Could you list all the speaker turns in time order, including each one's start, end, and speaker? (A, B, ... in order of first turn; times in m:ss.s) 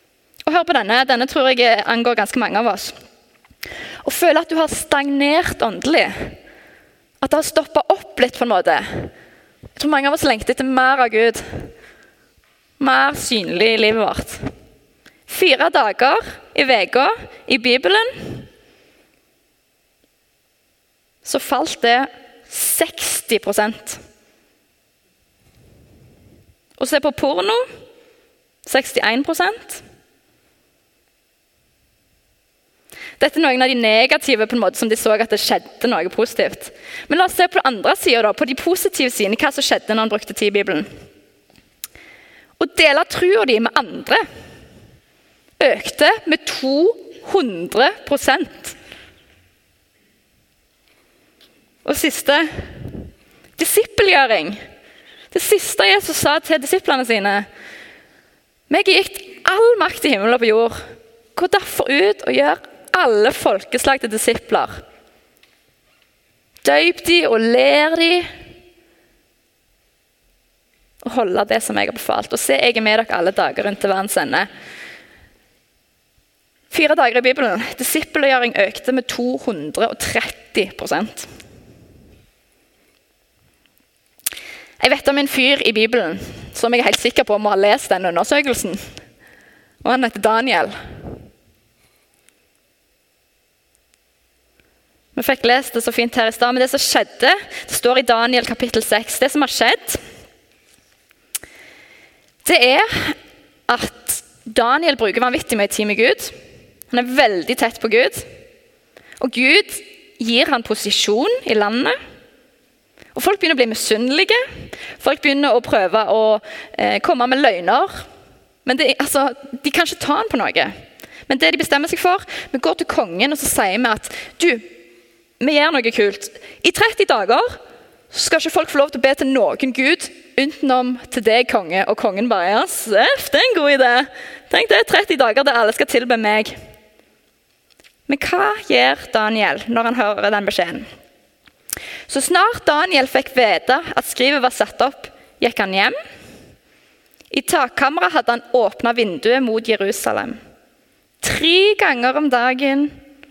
0:00.4-0:03.0 A
0:04.0-0:06.4 A
0:07.2-0:09.1 A
0:09.8-0:11.4 A
0:12.8-0:14.4 A
0:15.3-0:18.4 A
0:21.2-0:24.0 A
0:26.8-0:27.6 A
0:28.6-0:29.8 A
0:33.2-0:40.9 A
0:42.6-0:44.2 A
0:45.6-0:48.8 A
0:51.8-0:53.0 A
0:53.6-0:54.6 A
0:55.3-0:57.5 A
0:58.7-1:00.8 A
1:01.4-1:04.8 A
1:06.6-1:08.3 A
1:11.0-1:14.5 A
1:16.7-1:21.3 A
1:24.8-1:28.9 A
1:29.8-1:30.8 A
1:35.2-1:40.0 A
1:42.4-1:43.2 A
1:43.7-1:46.3 A
1:46.9-1:48.3 A
1:49.2-1:52.0 A
1:53.2-1:54.4 A
1:55.0-1:58.0 A
1:58.6-2:00.7 A
2:01.3-2:04.7 A
2:05.4-2:07.5 A
2:08.1-2:16.5 A
2:18.1-2:20.9 A
2:22.1-2:26.0 A
2:27.3-2:30.4 A
2:31.2-2:32.9 A